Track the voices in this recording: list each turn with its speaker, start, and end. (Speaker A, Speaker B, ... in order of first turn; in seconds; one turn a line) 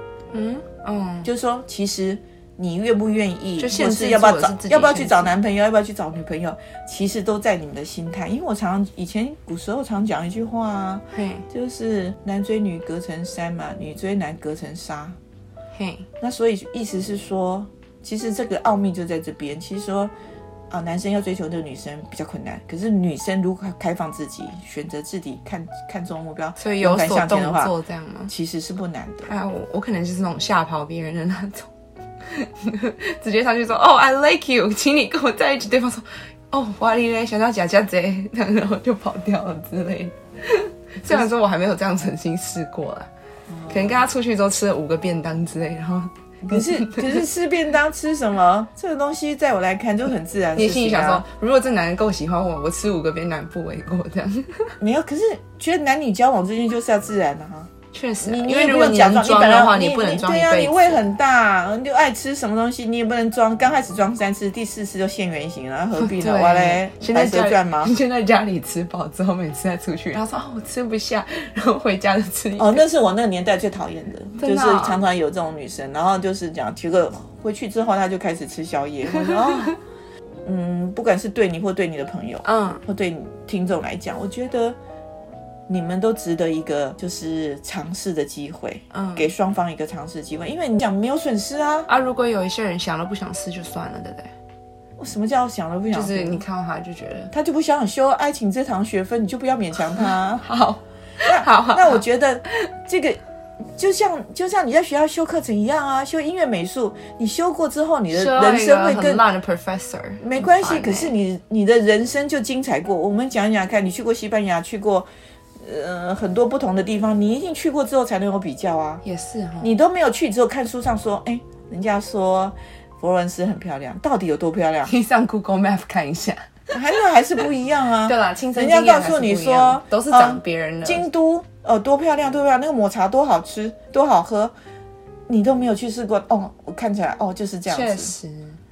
Speaker A: 0.3-1.3
Speaker B: 1.2-15.2
Speaker A: 3.6-5.4
Speaker A: 11.1-11.4
Speaker A: 15.8-16.1
Speaker B: 16.2-20.1
Speaker B: 20.7-27.7
Speaker A: 26.6-28.3
Speaker B: 28.3-29.3
Speaker A: 29.2-31.7
Speaker A: 32.2-43.1
Speaker B: 43.5-44.1
Speaker A: 43.7-47.2
Speaker B: 46.5-51.3
Speaker A: 50.6-54.8
Speaker B: 54.8-57.7
Speaker A: 57.9-61.0
Speaker B: 58.2-67.9
Speaker A: 66.0-72.8
Speaker B: 72.6-79.8
Speaker A: 74.4-75.0
Speaker A: 79.1-79.8
Speaker B: 80.5-84.8
Speaker A: 82.5-82.8
Speaker B: 85.7-91.9
Speaker A: 88.9-89.3
Speaker A: 91.9-94.3
Speaker B: 95.0-96.4
Speaker A: 95.9-97.3
Speaker B: 97.3-100.4
Speaker A: 99.9-102.0
Speaker B: 101.2-109.2
Speaker A: 108.1-111.1
Speaker B: 110.2-119.0
Speaker A: 119.0-119.7
Speaker B: 119.6-124.9
Speaker A: 124.9-126.5
Speaker B: 126.7-134.5
Speaker A: 128.1-131.1
Speaker B: 135.3-138.1
Speaker A: 137.7-138.6